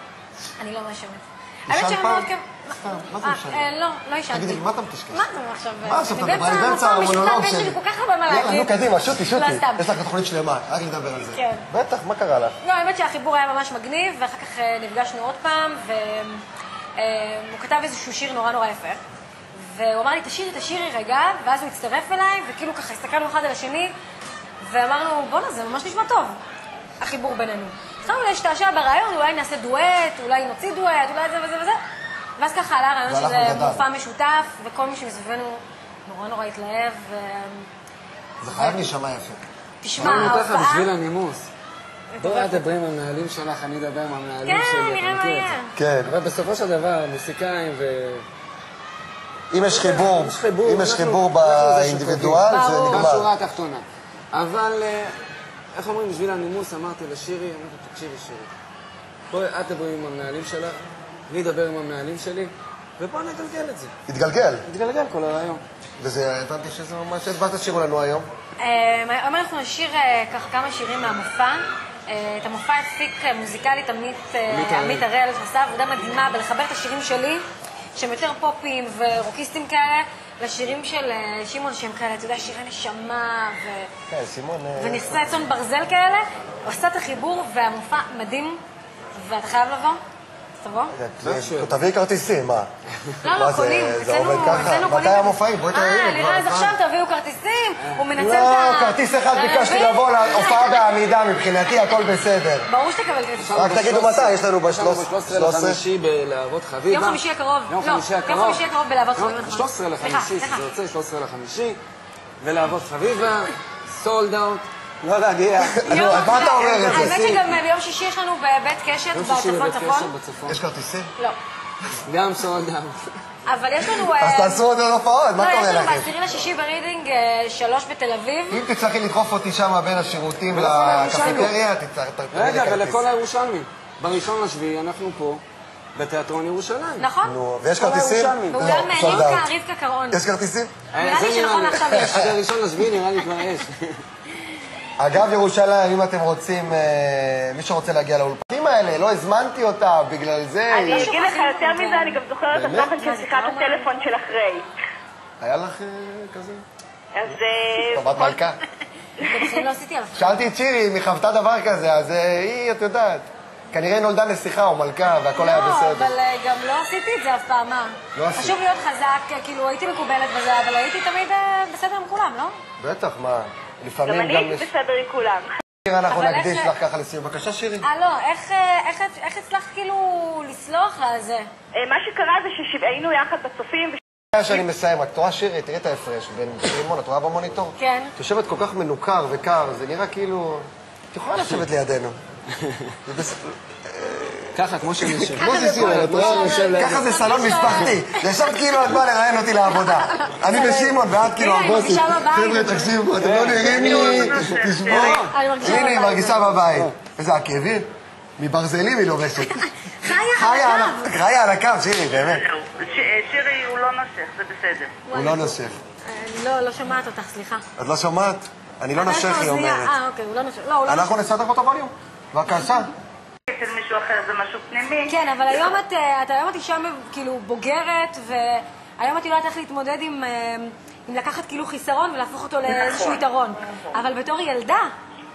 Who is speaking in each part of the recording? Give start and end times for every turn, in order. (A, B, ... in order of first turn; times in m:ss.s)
0:00.6-0:09.9 A
0:01.7-0:03.7 B
0:04.3-0:05.2 B
0:05.8-0:12.6 B
0:11.3-0:11.7 A
0:12.6-0:16.4 A
0:17.0-0:19.0 A
0:19.6-0:23.9 A
0:24.6-0:26.4 A
0:27.0-0:31.8 A
0:32.4-0:37.7 A
0:33.1-0:33.9 B
0:38.4-0:40.4 B
0:38.6-0:38.9 A
0:39.8-0:40.9 A
0:40.0-0:41.5 C
0:42.1-0:42.6 A
0:42.2-0:48.3 C
0:44.4-0:45.7 A
0:45.8-0:46.2 B
0:49.5-0:53.3 B
0:49.7-0:55.2 C
0:52.5-0:53.1 A
0:55.7-0:58.5 C
0:59.3-1:03.9 C
1:04.1-1:04.7 B
1:04.6-1:05.6 C
1:06.0-1:08.3 B
1:08.6-1:17.4 A
1:14.5-1:15.1 C
1:18.0-1:23.9 A
1:24.1-1:25.5 B
1:24.8-1:28.6 A
1:29.2-1:30.0 A
1:30.6-1:30.9 A
1:30.9-1:32.7 B
1:31.2-1:31.8 C
1:33.2-1:40.9 A
1:33.3-1:36.8 B
1:37.8-1:38.1 C
1:38.2-1:42.7 B
1:42.7-1:43.6 A
1:43.4-1:48.6 C
1:43.5-1:45.8 B
1:46.9-1:50.7 A
1:49.2-1:51.8 C
1:52.4-1:57.3 C
1:55.8-1:57.4 B
1:55.8-2:00.1 A
1:59.1-2:00.6 C
2:00.5-2:01.1 B
2:02.1-2:03.1 C
2:03.5-2:04.6 A
2:04.2-2:06.1 B
2:05.4-2:08.6 A
2:08.5-2:13.0 B
2:10.5-2:11.6 C
2:10.6-2:11.5 A
2:12.3-2:15.4 C
2:16.0-2:17.1 C
2:17.0-2:20.2 A
2:17.2-2:19.5 B
2:17.8-2:19.3 C
2:20.1-2:20.8 B
2:20.9-2:24.0 C
2:21.0-2:22.2 A
2:22.0-2:22.4 B
2:25.0-2:31.1 B
2:30.7-2:34.7 D
2:30.8-2:32.2 A
2:32.5-2:33.0 B
2:32.9-2:34.0 A
2:35.4-2:36.6 B
2:37.2-2:38.4 D
2:37.9-2:38.6 B
2:39.2-2:39.5 D
2:39.2-2:40.4 A
2:40.2-2:46.1 B
2:45.4-2:52.6 A
2:48.2-2:48.6 B
2:52.8-2:54.7 B
2:54.1-2:55.5 D
2:55.8-2:57.9 B
2:56.1-2:56.7 A
2:57.8-3:01.5 A
3:01.8-3:04.0 D
3:04.3-3:12.2 B
3:07.8-3:08.1 A
3:12.6-3:13.0 C
3:13.1-3:32.4 B
3:14.5-3:18.0 C
3:15.4-3:18.6 A
3:19.7-3:23.0 A
3:23.2-3:27.0 C
3:23.7-3:25.3 E
3:25.2-3:26.6 A
3:29.4-3:31.2 A
3:32.2-3:35.0 E
3:35.1-3:37.6 A
3:35.1-3:35.8 B
3:37.8-3:39.9 B
3:39.0-3:41.2 A
3:40.9-3:42.9 B
3:43.5-3:45.8 E
3:45.1-3:54.9 A
3:52.7-3:53.9 E